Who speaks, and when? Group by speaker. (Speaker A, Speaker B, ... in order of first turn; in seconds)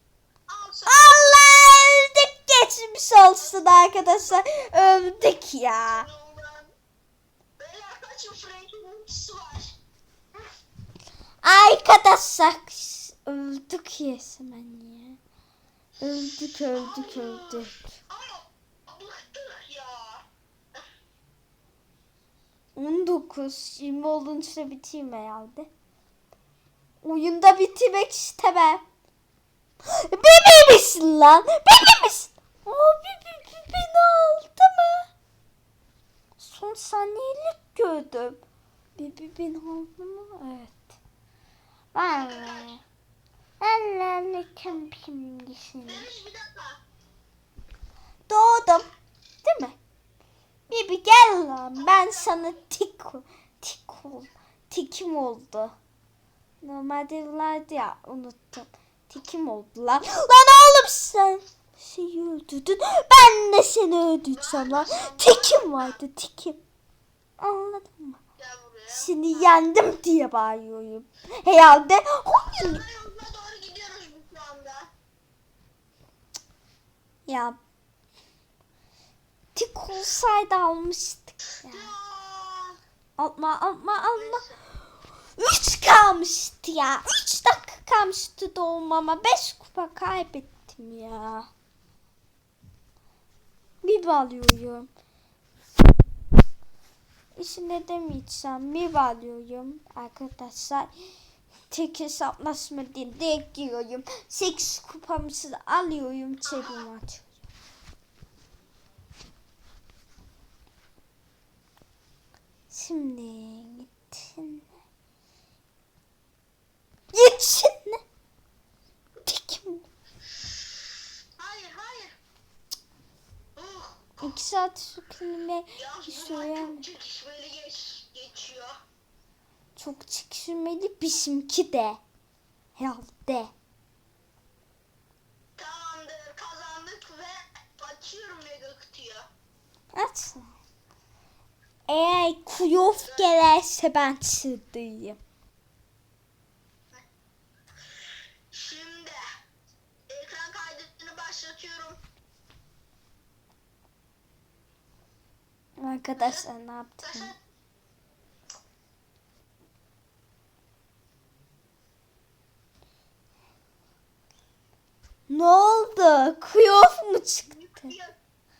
Speaker A: 0.5-1.3, 3.4-4.5, 5.9-6.7, 7.6-9.8, 16.4-20.8, 42.1-42.7, 45.8-46.8, 51.8-52.6, 64.3-66.0, 68.4-69.6, 72.4-74.9, 81.7-82.8, 84.1-84.6, 106.5-106.8, 121.4-122.2, 123.6-124.4, 125.7-128.8, 135.6-139.3, 142.9-143.3, 148.5-149.2, 150.1-152.0, 156.2-156.4, 157.0-157.4, 167.5-168.2
Speaker B: 0.9-6.1, 11.4-15.2, 16.0-17.9, 22.8-25.7, 27.0-28.8, 29.9-35.1, 36.4-38.4, 39.0-40.9, 41.9-42.8, 43.6-46.1, 48.3-48.9, 49.4-49.8, 50.7-55.8, 56.6-66.6, 67.4-68.2, 68.9-72.8, 77.3-77.6, 79.5-81.9, 83.2-84.4, 85.4-91.5, 93.8-94.9, 97.4-100.9, 101.7-107.3, 112.7-114.7, 117.1-118.0, 119.2-119.9, 124.2-126.8, 129.8-132.0, 132.8-133.5, 139.9-140.5, 141.9-145.2, 155.8-157.3, 165.3-167.9